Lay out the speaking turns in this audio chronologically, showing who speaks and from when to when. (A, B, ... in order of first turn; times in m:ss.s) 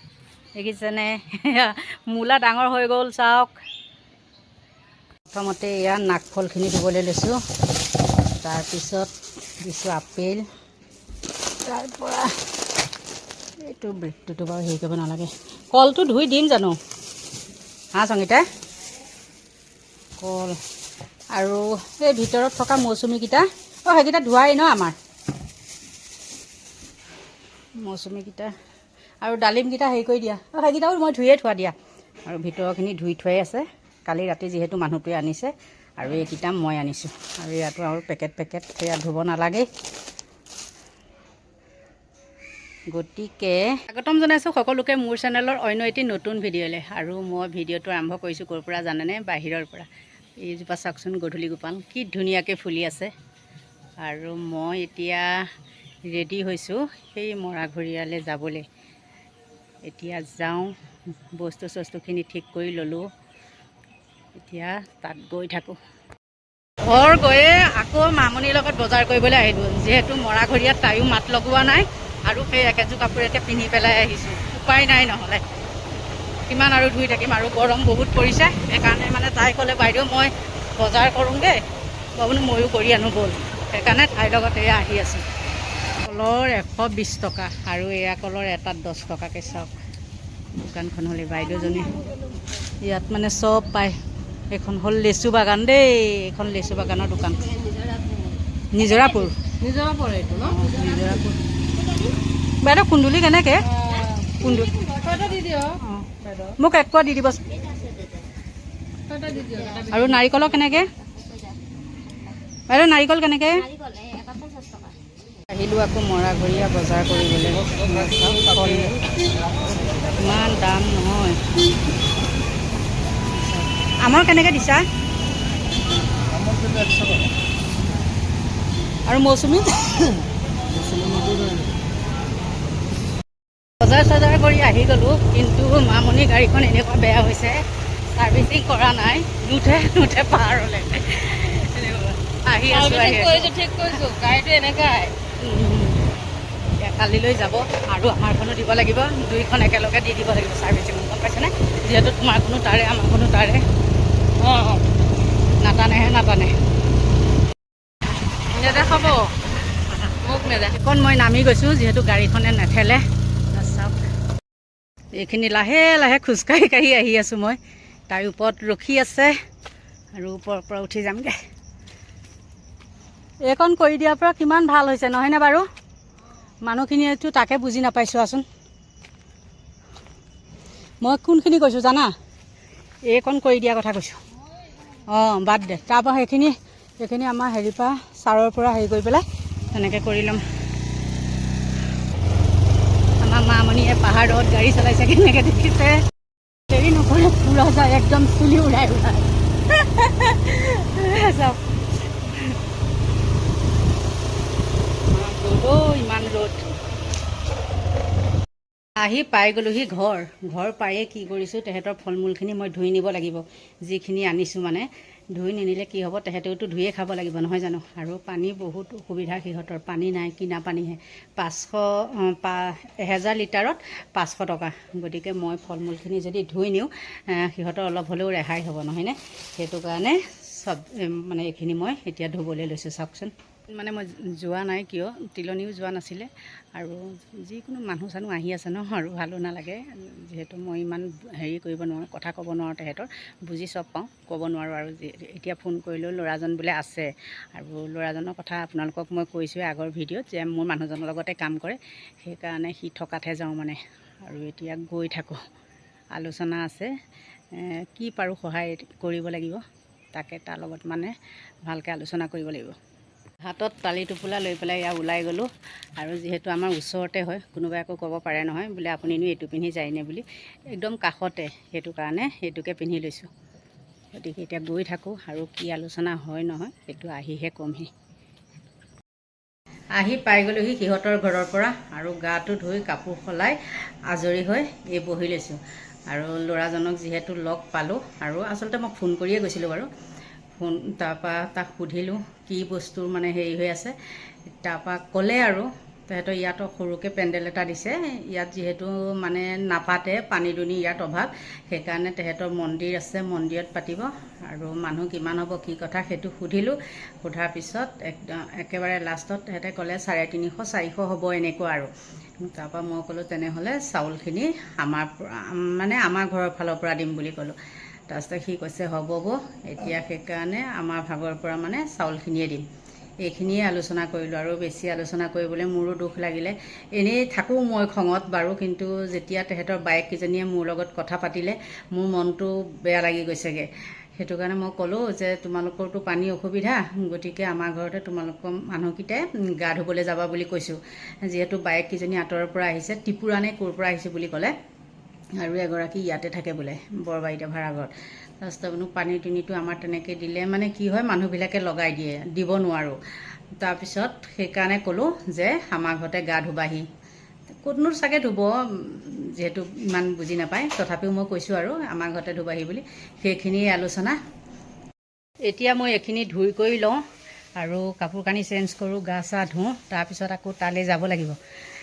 0:00.6-0:03.5 A
0:05.3-0:07.4 A
0:08.4-0:10.5 A
0:11.6-0:12.4 A
0:13.6-0:16.8 A
0:17.9-0:18.5 A
0:20.2-0:20.6 A
0:21.3-0:25.0 A
0:27.8-0:28.5 A
0:29.2-0:31.8 A
0:32.3-0:39.7 A
0:42.9-0:49.9 A
0:50.4-0:53.1 A
0:54.0-0:55.5 A
0:56.1-0:58.6 A
0:59.8-1:00.7 A
1:01.3-1:03.1 A
1:04.4-1:05.8 A
1:06.8-1:15.4 A
1:16.5-1:21.6 A
1:22.2-1:25.3 A
1:26.0-1:29.7 A
1:30.5-1:32.0 A
1:32.8-1:34.0 A
1:34.5-1:37.5 A
1:38.7-1:39.4 A
1:39.6-1:41.3 B
1:40.4-1:41.4 A
1:42.6-1:44.8 A
1:43.7-1:46.5 B
1:45.8-1:47.4 A
1:49.1-1:50.4 B
1:49.9-1:50.9 A
1:51.2-1:51.6 B
1:52.7-1:53.7 A
1:53.8-1:54.9 B
1:55.5-1:59.0 A
2:00.0-2:01.4 A
2:03.3-2:04.9 A
2:09.1-2:10.2 A
2:11.0-2:11.3 B
2:13.8-2:17.6 A
2:18.1-2:23.6 A
2:22.7-2:25.2 B
2:25.4-2:26.1 A
2:26.8-2:33.7 A
2:34.4-2:34.9 B
2:35.6-2:36.5 A
2:38.5-2:39.3 A
2:38.5-2:39.3 B
2:39.9-2:44.0 A
2:40.2-2:40.8 B
2:45.2-2:49.4 A
2:50.2-2:51.4 A
2:53.5-2:55.7 A
2:56.6-2:58.4 A
3:01.0-3:02.1 A
3:03.1-3:04.2 A
3:05.1-3:10.4 A
3:13.2-3:16.0 A
3:16.7-3:21.6 A
3:22.3-3:22.6 A
3:25.1-3:26.6 A
3:29.0-4:15.4 A
4:16.1-4:16.9 A
4:17.5-4:19.6 A
4:20.1-4:21.1 A
4:21.6-4:22.8 A
4:23.4-4:33.3 A
4:34.1-4:37.9 A
4:40.0-4:49.9 A
4:50.6-4:54.0 A
4:54.5-5:17.6 A
5:18.1-5:22.6 A
5:23.2-5:44.5 A
5:45.4-5:53.0 A
5:53.6-5:56.9 A
5:57.6-6:04.2 A
6:05.5-6:07.0 A
6:07.6-6:11.4 A